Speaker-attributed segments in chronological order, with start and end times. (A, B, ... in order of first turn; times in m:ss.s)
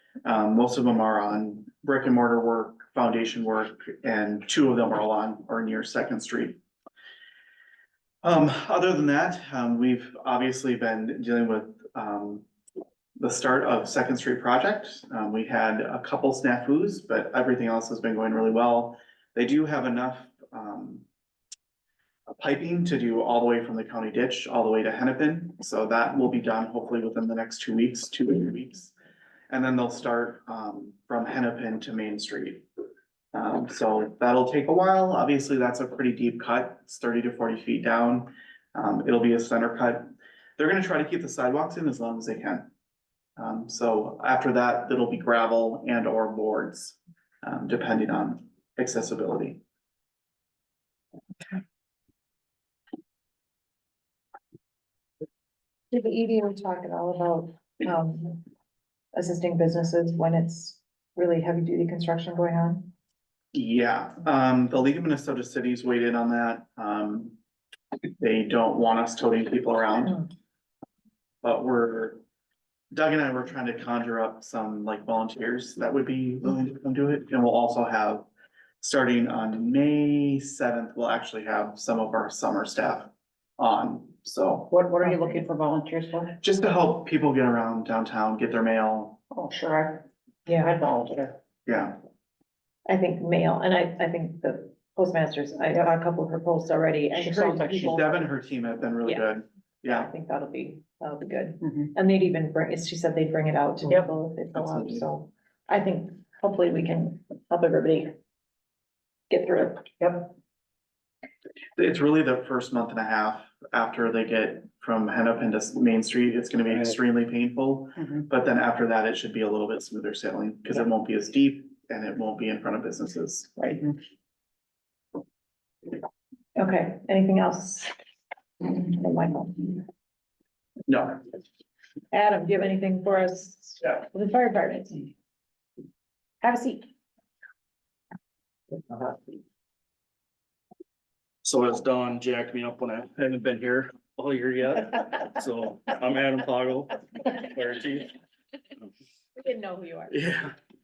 0:00.2-0:06.6 A
0:08.2-0:12.4 A
0:13.2-0:21.0 A
0:22.4-0:28.9 A
0:29.5-0:32.6 A
0:33.3-0:42.7 A
0:43.4-0:49.6 A
0:55.9-0:58.4 B
0:59.1-1:02.9 B
1:03.5-1:07.4 A
1:08.2-1:10.2 A
1:11.4-1:12.2 A
1:12.9-1:18.3 A
1:18.8-1:24.7 A
1:24.7-1:26.4 C
1:25.0-1:25.4 B
1:26.4-1:29.2 A
1:29.3-1:31.4 C
1:30.4-1:30.8 B
1:31.6-1:32.0 A
1:32.8-1:38.0 B
1:37.1-1:38.2 C
1:37.8-1:40.1 A
1:39.9-1:48.1 B
1:44.5-1:45.0 A
1:49.3-1:50.2 B
1:50.0-1:50.3 C
1:51.8-2:03.8 A
2:06.6-2:07.9 B
2:08.6-2:09.8 B
2:10.9-2:11.2 A
2:12.1-2:15.1 B
2:16.4-2:16.9 B
2:21.4-2:28.1 D
2:29.4-2:30.2 B
2:30.1-2:30.5 D